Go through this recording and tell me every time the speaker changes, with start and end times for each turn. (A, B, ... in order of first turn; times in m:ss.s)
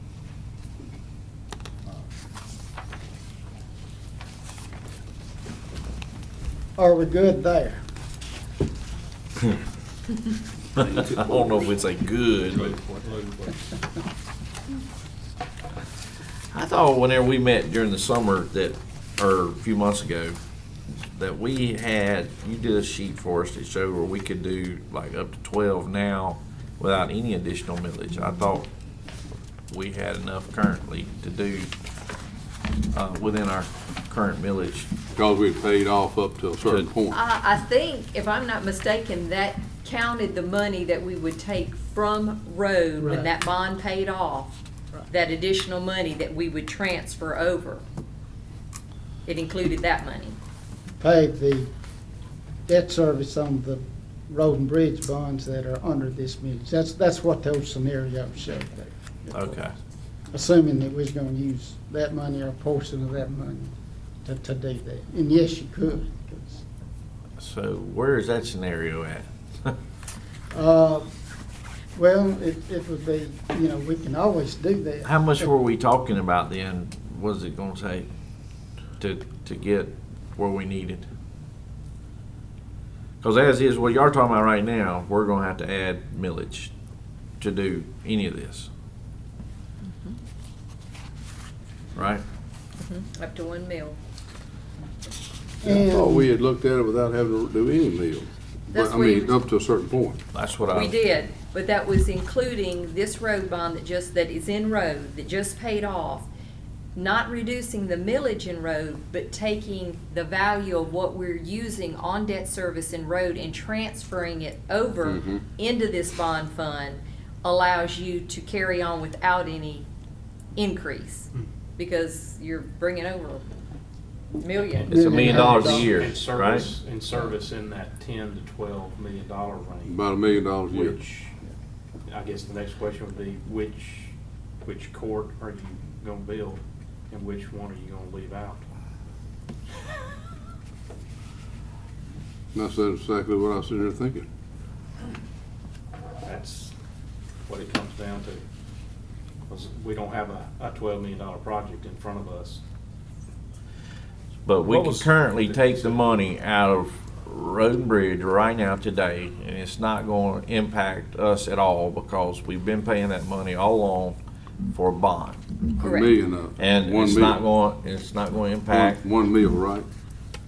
0:06.8-0:07.8 A
0:10.8-0:12.7 B
0:12.5-0:13.5 C
0:16.5-0:20.4 B
0:21.0-0:28.7 B
0:29.7-0:31.7 B
0:32.9-0:34.9 B
0:35.2-0:37.2 D
0:37.1-0:44.6 E
0:43.0-0:43.3 A
0:45.1-0:47.8 E
0:49.2-0:50.4 E
0:51.0-0:51.7 A
0:52.7-0:59.6 A
0:59.3-0:59.7 B
1:00.3-1:03.7 A
1:04.2-1:06.6 A
1:07.4-1:09.7 B
1:10.5-1:11.1 A
1:11.9-1:15.5 A
1:15.0-1:18.1 B
1:19.0-1:21.1 B
1:23.2-1:26.7 B
1:27.4-1:28.7 B
1:29.8-1:30.2 E
1:32.0-1:32.2 B
1:32.8-1:34.0 E
1:35.6-1:36.3 A
1:35.6-1:40.2 D
1:38.7-1:39.4 E
1:40.3-1:41.0 B
1:40.7-1:46.3 E
1:46.9-1:59.9 E
1:55.0-1:55.4 D
2:00.6-2:03.5 E
2:04.4-2:04.9 E
2:04.6-2:11.4 C
2:04.9-2:06.0 A
2:04.9-2:06.7 B
2:09.8-2:11.0 D
2:12.1-2:18.6 C
2:22.5-2:24.2 D
2:26.2-2:26.7 C
2:27.4-2:28.4 C
2:29.5-2:32.6 C
2:34.4-2:44.2 B
2:34.6-2:36.0 C
2:44.7-2:45.5 B
2:45.8-2:47.4 D
2:45.8-2:46.1 E
2:46.6-2:49.0 B
2:48.7-2:49.9 D